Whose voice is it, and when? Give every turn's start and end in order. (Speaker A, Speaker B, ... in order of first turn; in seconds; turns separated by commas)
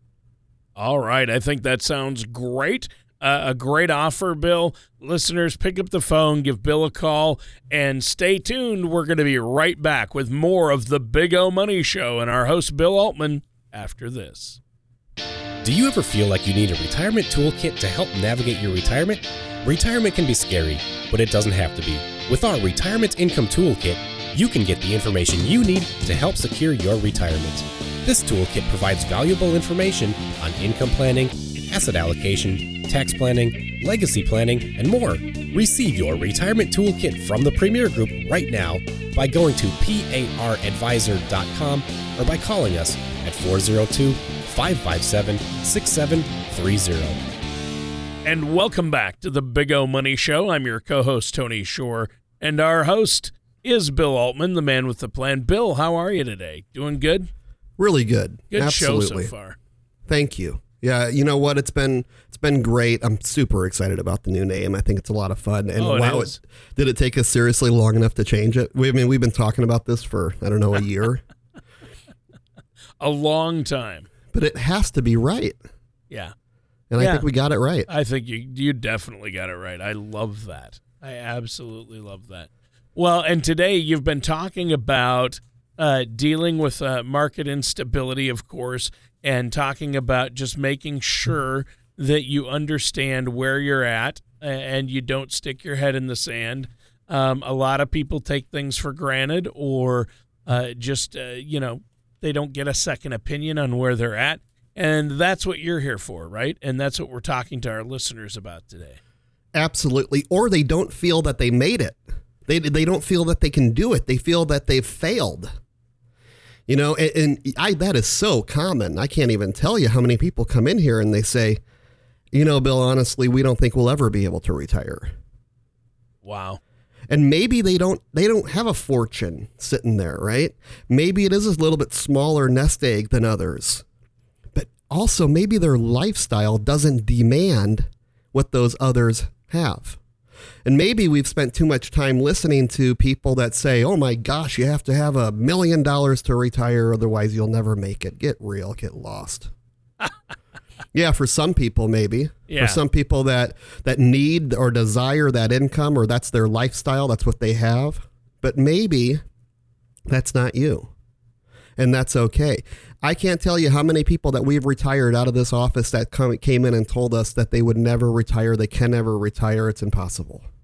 Speaker A: 0.8-14.6, Speaker B: 15.6-47.2, Speaker A: 48.2-57.3, Speaker C: 57.8-59.3, Speaker A: 58.5-59.6, Speaker C: 60.1-71.2, Speaker A: 65.8-66.4, Speaker A: 73.0-74.1, Speaker C: 74.3-75.6, Speaker C: 76.9-77.9, Speaker A: 77.0-77.3, Speaker A: 77.9-109.0, Speaker C: 109.6-115.5, Speaker C: 116.7-121.6, Speaker C: 122.3-125.1, Speaker A: 126.2-126.6, Speaker C: 127.1-133.8, Speaker C: 134.5-140.0, Speaker C: 140.7-149.5, Speaker C: 150.9-159.2, Speaker A: 152.5-152.8, Speaker C: 160.1-160.9, Speaker C: 161.8-170.5